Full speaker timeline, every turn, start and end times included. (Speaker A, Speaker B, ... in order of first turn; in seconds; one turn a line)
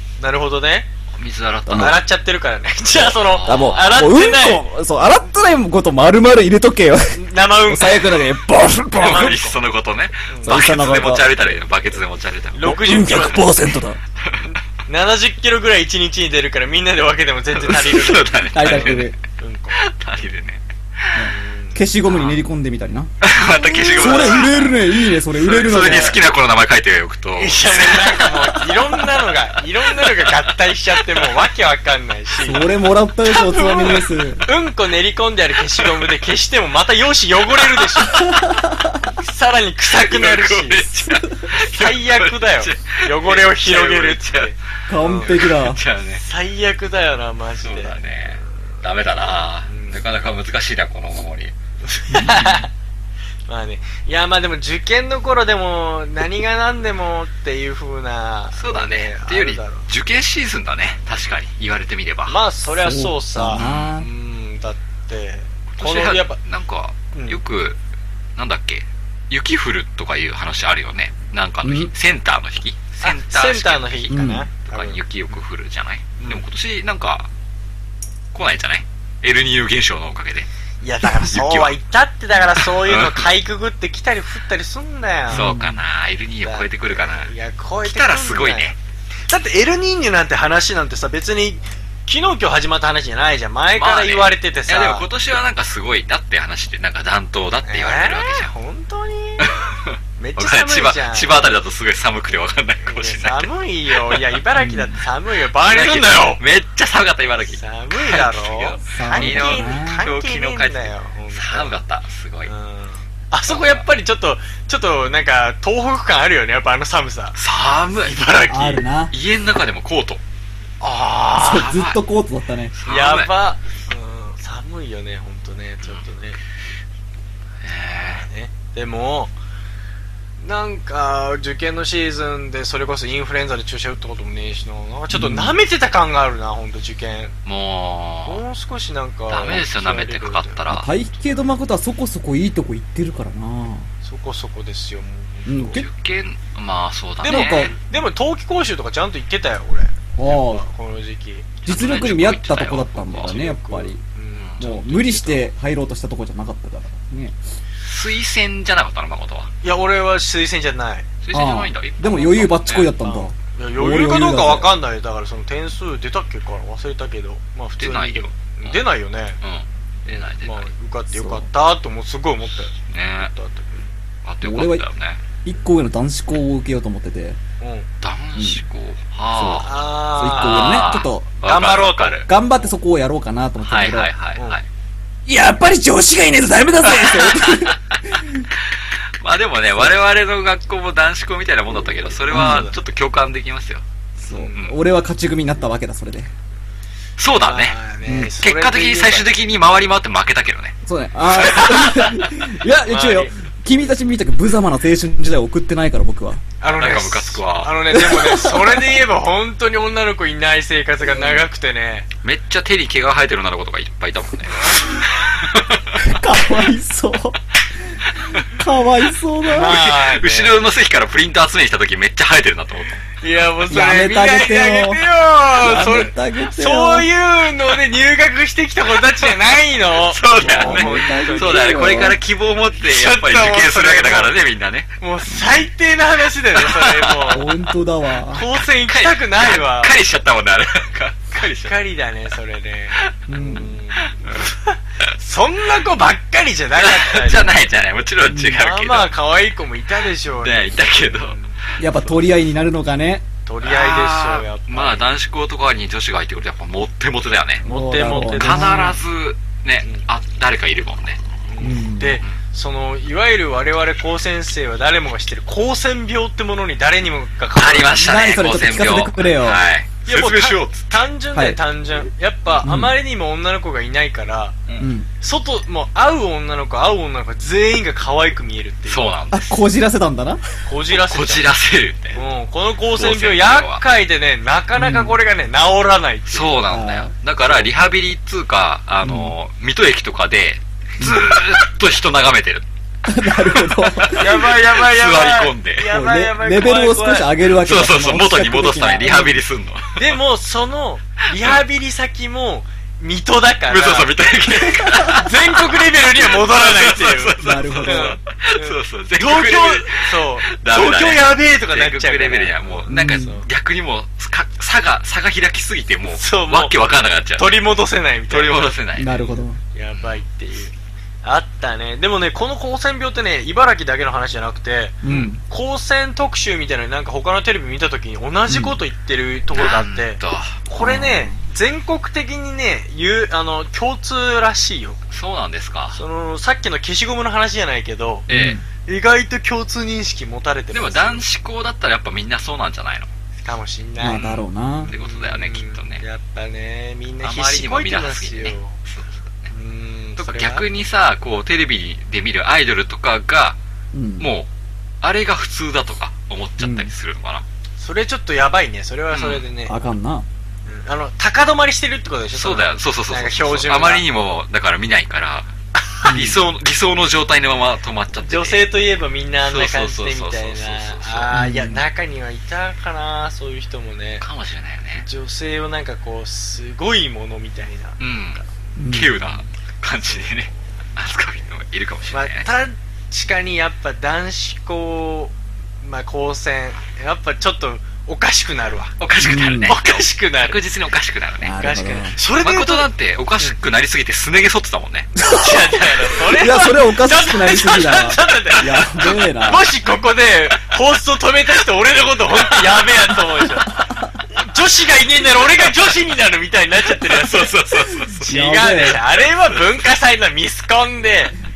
Speaker A: 0.2-0.9
Speaker B: 1.2-2.0
Speaker C: 1.7-2.0
Speaker A: 1.7-4.7
Speaker B: 3.1-3.9
Speaker C: 3.5-9.4
Speaker A: 7.1-8.2
Speaker B: 9.0-13.4
Speaker A: 9.0-9.6
Speaker A: 10.3-10.6
Speaker C: 10.4-11.3
Speaker A: 12.5-13.5
Speaker C: 12.6-14.0
Speaker A: 14.4-20.3
Speaker B: 17.6-19.2
Speaker C: 18.5-19.1
Speaker B: 19.7-21.2
Speaker C: 21.1-23.1
Speaker A: 21.3-21.8
Speaker B: 22.1-22.4
Speaker B: 23.2-29.0
Speaker A: 23.6-24.5
Speaker C: 23.9-26.2
Speaker A: 25.7-26.2
Speaker A: 27.4-32.7
Speaker B: 29.9-30.5
Speaker C: 32.4-34.5
Speaker A: 33.3-38.5
Speaker B: 37.8-38.4
Speaker C: 38.2-39.1
Speaker A: 39.1-40.9
Speaker B: 39.9-44.6
Speaker A: 41.5-45.4
Speaker C: 44.9-45.8
Speaker B: 45.2-46.2
Speaker A: 46.2-48.0
Speaker B: 47.6-51.5
Speaker A: 49.7-50.0
Speaker A: 51.9-52.7
Speaker C: 52.1-52.6
Speaker A: 53.5-59.9
Speaker B: 58.5-62.4
Speaker A: 62.3-66.4
Speaker C: 62.8-64.1
Speaker B: 63.5-63.9
Speaker B: 65.8-67.8
Speaker A: 67.1-67.4
Speaker B: 68.4-77.3
Speaker C: 71.6-71.9
Speaker A: 73.0-75.0
Speaker C: 74.1-74.5
Speaker A: 76.2-76.4
Speaker B: 78.3-80.5
Speaker A: 80.8-85.5
Speaker B: 81.3-81.8
Speaker B: 82.6-83.3
Speaker B: 85.3-87.3
Speaker C: 85.3-85.8
Speaker A: 86.4-88.8
Speaker B: 87.8-88.8
Speaker A: 89.3-95.1
Speaker B: 93.8-98.5
Speaker A: 97.6-99.5
Speaker B: 99.4-104.2
Speaker A: 100.2-101.5
Speaker A: 102.8-106.4
Speaker C: 104.6-104.9
Speaker B: 105.6-112.5
Speaker A: 107.5-111.7
Speaker C: 108.9-110.0
Speaker A: 112.5-117.4
Speaker B: 113.5-113.8
Speaker B: 117.4-118.2
Speaker A: 118.0-118.8
Speaker C: 118.5-119.1
Speaker B: 119.1-120.2
Speaker A: 120.8-121.8
Speaker C: 121.4-122.8
Speaker B: 121.5-122.0
Speaker B: 122.8-123.3
Speaker A: 122.9-126.4
Speaker B: 127.6-128.3
Speaker A: 128.0-129.3
Speaker A: 130.4-137.3
Speaker C: 135.1-135.6
Speaker B: 137.5-138.4
Speaker A: 138.3-140.6
Speaker B: 139.3-140.9
Speaker C: 140.7-143.9
Speaker A: 144.0-145.8
Speaker C: 145.5-145.8
Speaker B: 145.7-147.8
Speaker A: 147.2-151.7
Speaker C: 147.3-147.8
Speaker C: 150.2-150.7
Speaker B: 151.7-153.4
Speaker C: 151.7-154.0
Speaker A: 153.2-155.5
Speaker B: 154.3-154.6
Speaker C: 154.6-157.4
Speaker B: 157.8-159.5
Speaker A: 159.6-161.1
Speaker B: 161.2-163.0
Speaker C: 161.3-164.7
Speaker A: 163.0-169.4
Speaker B: 167.8-168.8
Speaker B: 169.4-170.7
Speaker A: 170.1-172.7
Speaker C: 171.1-171.5
Speaker B: 172.9-173.3
Speaker A: 173.3-173.9
Speaker B: 174.2-175.2
Speaker C: 174.4-174.9
Speaker C: 175.4-177.4
Speaker A: 177.6-177.9
Speaker B: 178.0-179.8
Speaker C: 179.3-181.3
Speaker A: 179.6-180.8
Speaker B: 180.3-182.3
Speaker A: 181.4-182.7
Speaker C: 182.3-184.1
Speaker B: 183.6-184.6
Speaker C: 185.3-188.5
Speaker B: 187.0-188.0
Speaker B: 188.7-193.8
Speaker A: 192.2-192.8
Speaker C: 192.3-192.7
Speaker C: 194.2-196.3
Speaker A: 194.3-194.6
Speaker B: 197.2-197.8
Speaker A: 197.3-199.5
Speaker C: 198.1-198.3
Speaker B: 198.4-202.3
Speaker C: 200.9-206.4
Speaker A: 202.9-203.3
Speaker A: 206.6-212.1
Speaker B: 206.8-208.0
Speaker C: 207.9-208.9
Speaker B: 212.2-216.0
Speaker A: 214.6-215.0
Speaker C: 216.0-217.4
Speaker C: 218.5-219.8
Speaker A: 219.4-220.6
Speaker B: 219.5-223.1
Speaker A: 223.2-232.0
Speaker C: 223.7-225.0
Speaker C: 225.6-227.1
Speaker B: 230.1-234.9
Speaker C: 230.4-232.2
Speaker A: 232.8-234.3
Speaker A: 235.0-237.6
Speaker B: 236.6-237.4
Speaker C: 237.3-238.5
Speaker A: 238.3-240.0
Speaker B: 238.8-241.9
Speaker A: 241.3-247.6
Speaker C: 243.3-243.8
Speaker B: 244.2-244.5
Speaker B: 246.8-249.1
Speaker C: 248.3-248.6
Speaker A: 248.5-251.6
Speaker B: 250.4-252.2
Speaker C: 251.8-253.3
Speaker A: 253.5-255.1
Speaker B: 253.6-257.6
Speaker A: 257.6-258.9
Speaker C: 257.6-259.0
Speaker B: 258.4-261.2
Speaker A: 261.5-268.0
Speaker C: 261.6-262.2
Speaker B: 267.6-271.1
Speaker C: 267.9-269.6
Speaker A: 270.1-274.7
Speaker C: 271.3-271.6
Speaker C: 272.6-272.9
Speaker C: 274.8-275.1
Speaker A: 275.2-279.1
Speaker B: 278.9-279.6
Speaker C: 279.3-280.4
Speaker A: 280.6-281.5
Speaker B: 281.0-282.2
Speaker A: 282.1-286.6
Speaker B: 282.9-283.8
Speaker C: 284.8-285.1
Speaker B: 286.3-292.6
Speaker C: 286.7-287.1
Speaker C: 289.0-289.3
Speaker C: 293.1-294.2
Speaker B: 293.7-295.9
Speaker A: 294.2-297.3
Speaker C: 295.9-299.4
Speaker B: 297.5-300.1
Speaker A: 300.0-313.5
Speaker B: 301.4-301.6
Speaker B: 303.7-317.6
Speaker C: 307.4-308.2
Speaker C: 312.9-313.4
Speaker A: 316.1-316.8
Speaker A: 317.4-318.8
Speaker B: 318.3-319.2
Speaker C: 319.0-319.6
Speaker A: 319.7-335.0
Speaker C: 325.0-325.4
Speaker B: 325.1-325.3
Speaker C: 328.5-328.8
Speaker B: 329.5-330.6
Speaker C: 330.8-331.4
Speaker B: 335.1-336.0
Speaker A: 335.9-338.3
Speaker B: 338.3-338.6
Speaker C: 338.3-338.6
Speaker A: 338.9-341.2
Speaker B: 340.7-343.1
Speaker A: 343.4-348.8
Speaker C: 344.0-344.9
Speaker B: 344.8-346.0
Speaker B: 347.2-349.5
Speaker A: 349.5-350.7
Speaker B: 350.2-353.6
Speaker C: 353.9-354.3
Speaker B: 354.2-354.5
Speaker B: 355.0-357.4
Speaker C: 356.6-356.9
Speaker A: 357.8-359.7
Speaker B: 359.1-359.5
Speaker C: 359.7-360.3
Speaker A: 360.7-364.1
Speaker B: 362.3-365.5
Speaker B: 366.0-368.8
Speaker C: 366.1-366.4
Speaker A: 368.2-374.2
Speaker B: 369.4-371.4
Speaker C: 371.3-371.8
Speaker B: 374.2-375.1
Speaker A: 375.0-378.5
Speaker B: 378.0-382.5
Speaker C: 378.8-379.2
Speaker A: 382.1-389.0
Speaker B: 389.0-391.6
Speaker C: 389.2-389.8
Speaker A: 389.7-390.6
Speaker C: 391.4-392.2
Speaker A: 391.6-393.6
Speaker B: 392.3-395.2
Speaker C: 395.2-399.6
Speaker A: 395.2-403.8
Speaker A: 404.3-411.4
Speaker B: 407.0-408.9
Speaker C: 408.1-409.0